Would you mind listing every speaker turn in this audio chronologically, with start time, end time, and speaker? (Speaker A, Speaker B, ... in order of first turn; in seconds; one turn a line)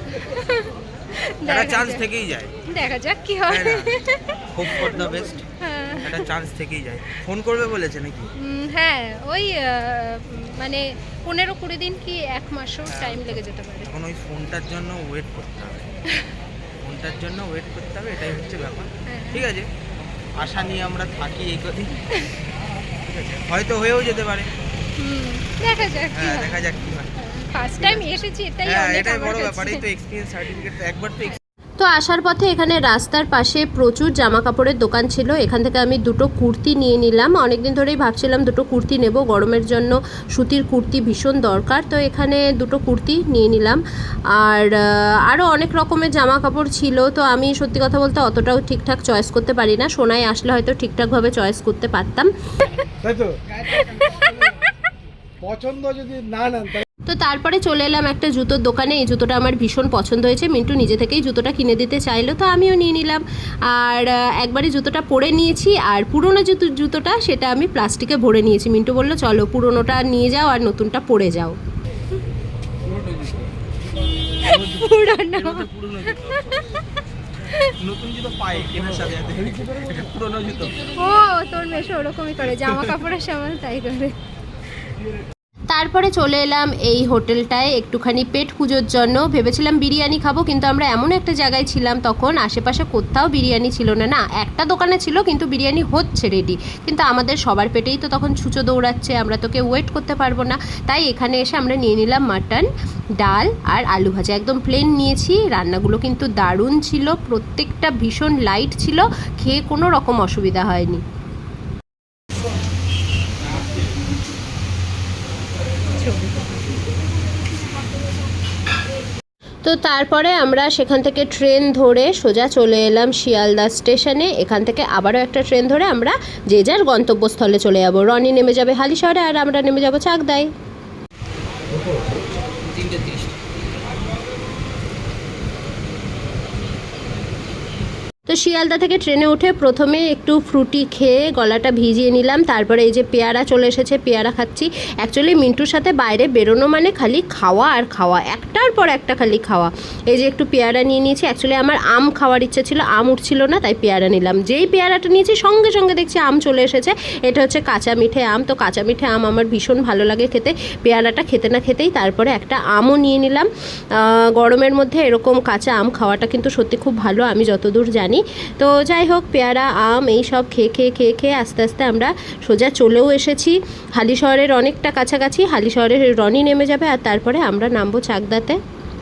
Speaker A: 0.2-2.0
Speaker B: 1.4-2.6
Speaker A: 2.7-4.2
Speaker B: 3.5-5.5
Speaker A: 5.6-6.2
Speaker B: 6.0-8.3
Speaker A: 8.4-13.9
Speaker B: 12.9-15.9
Speaker B: 16.8-19.7
Speaker A: 19.1-19.4
Speaker B: 20.4-22.0
Speaker B: 23.0-24.5
Speaker A: 25.0-26.6
Speaker B: 26.1-27.2
Speaker A: 27.2-29.8
Speaker B: 27.8-28.1
Speaker B: 28.6-31.4
Speaker C: 31.8-52.3
Speaker D: 53.0-53.4
Speaker A: 54.0-54.5
Speaker D: 55.4-56.8
Speaker C: 57.1-71.6
Speaker B: 73.0-73.4
Speaker A: 74.4-76.6
Speaker D: 74.5-74.8
Speaker B: 75.3-76.5
Speaker B: 77.8-80.8
Speaker A: 81.0-84.2
Speaker C: 85.7-102.7
Speaker C: 103.2-111.0
Speaker A: 116.0-116.5
Speaker C: 119.6-130.5
Speaker B: 132.7-133.2
Speaker C: 138.3-178.6